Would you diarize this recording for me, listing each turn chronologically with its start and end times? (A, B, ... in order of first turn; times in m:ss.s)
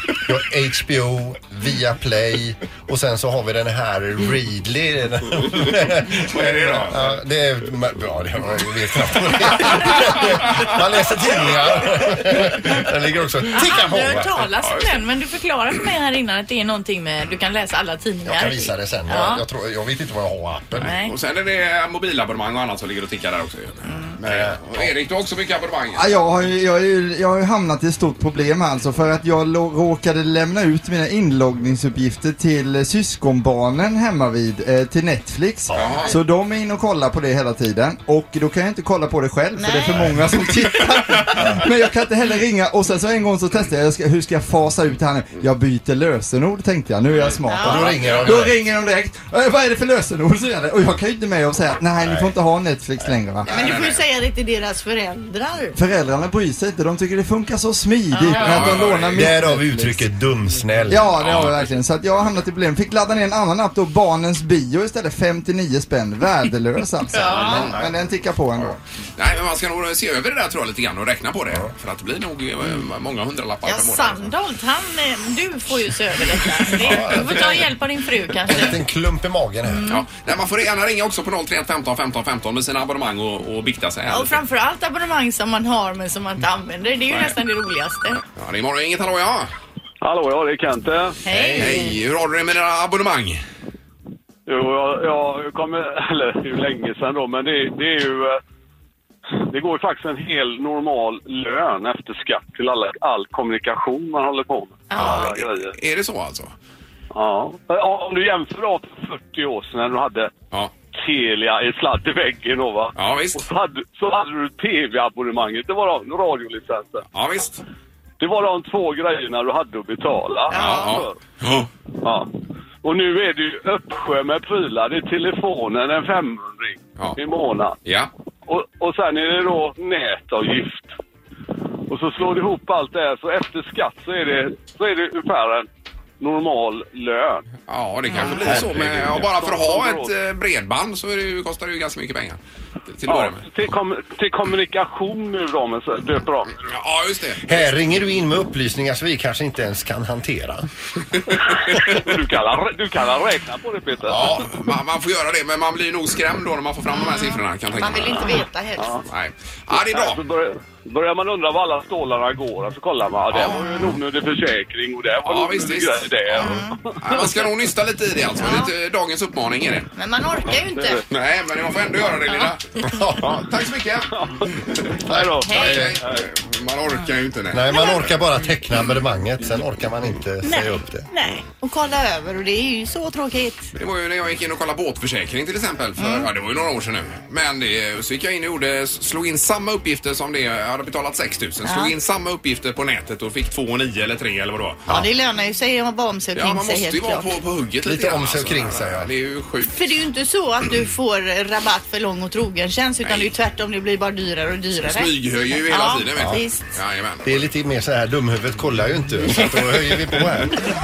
0:00.2-0:14.4 A
0:06.0-0:07.2 B
0:09.6-0:10.7 B
0:11.4-0:12.8 B
0:13.5-0:19.4 C
0:14.6-0:15.0 B
0:18.2-0:20.9 A
0:20.8-0:26.1 B
0:20.8-0:21.1 C
0:23.9-0:24.1 C
0:24.2-0:24.9 A
0:26.0-0:53.5 D
0:35.7-0:36.1 A
0:35.7-0:36.1 B
0:39.6-0:40.1 C
0:47.5-0:48.0 C
0:47.6-0:48.5 A
0:48.0-0:48.4 B
0:52.0-0:52.3 A
0:53.4-0:54.0 B
0:53.5-0:55.8 C
0:55.7-1:00.0 D
0:58.1-0:58.8 C
0:58.4-0:59.3 B
0:59.1-1:01.2 A
1:00.9-1:08.8 D
1:01.2-1:01.7 B
1:07.1-1:07.8 C
1:07.2-1:07.9 A
1:07.4-1:07.8 B
1:09.2-1:14.3 B
1:13.6-1:18.8 C
1:16.7-1:17.6 B
1:16.8-1:17.7 A
1:18.5-1:19.9 A
1:19.7-1:20.0 C
1:19.9-1:24.4 B
1:24.1-1:28.2 C
1:27.1-1:27.4 B
1:28.3-1:29.5 B
1:30.0-1:31.2 E
1:31.2-1:31.9 C
1:31.3-1:31.9 A
1:31.6-1:33.4 B
1:34.5-1:38.4 E
1:39.4-1:45.7 E
1:44.9-1:45.3 C
1:45.0-1:46.5 B
1:47.1-1:50.3 E
1:50.9-1:57.0 E
1:53.0-1:53.4 B
1:57.1-1:57.6 B
1:58.2-2:01.2 E
2:00.5-2:01.0 C
2:00.5-2:01.7 B
2:02.0-2:02.3 E
2:02.8-2:07.8 E
2:07.8-2:08.1 B
2:08.5-2:10.9 E
2:11.9-2:15.7 E
2:16.2-2:17.4 E
2:17.7-2:23.5 B
2:18.1-2:18.5 C
2:18.3-2:20.1 E
2:18.4-2:19.0 A
2:23.0-2:26.6 E
2:26.6-2:27.7 B
2:27.4-2:30.7 A
2:31.4-2:34.4 E
2:34.1-2:38.4 B
2:36.9-2:39.0 C
2:38.8-2:39.0 E
2:39.0-2:40.2 B
2:39.7-2:47.5 E
2:43.3-2:44.0 B
2:45.2-2:49.9 B
2:46.4-2:46.8 C
2:48.4-2:48.7 C
2:50.0-2:51.0 C
2:50.7-2:51.0 E
2:51.1-2:52.7 B
2:52.8-2:53.4 A
2:53.2-2:58.0 B
2:54.1-2:56.3 E
2:55.0-2:56.0 A
2:55.4-2:55.8 C
2:57.5-3:01.1 A
2:57.7-2:58.0 C
3:00.4-3:03.7 C
3:03.8-3:14.9 B
3:06.0-3:06.3 C
3:11.6-3:11.9 C
3:14.9-3:17.3 C
3:16.3-3:19.8 B
3:17.8-3:19.1 A
3:19.6-3:26.6 C
3:23.0-3:23.3 B
3:24.8-3:27.5 B
3:26.1-3:26.4 A
3:27.2-3:30.7 A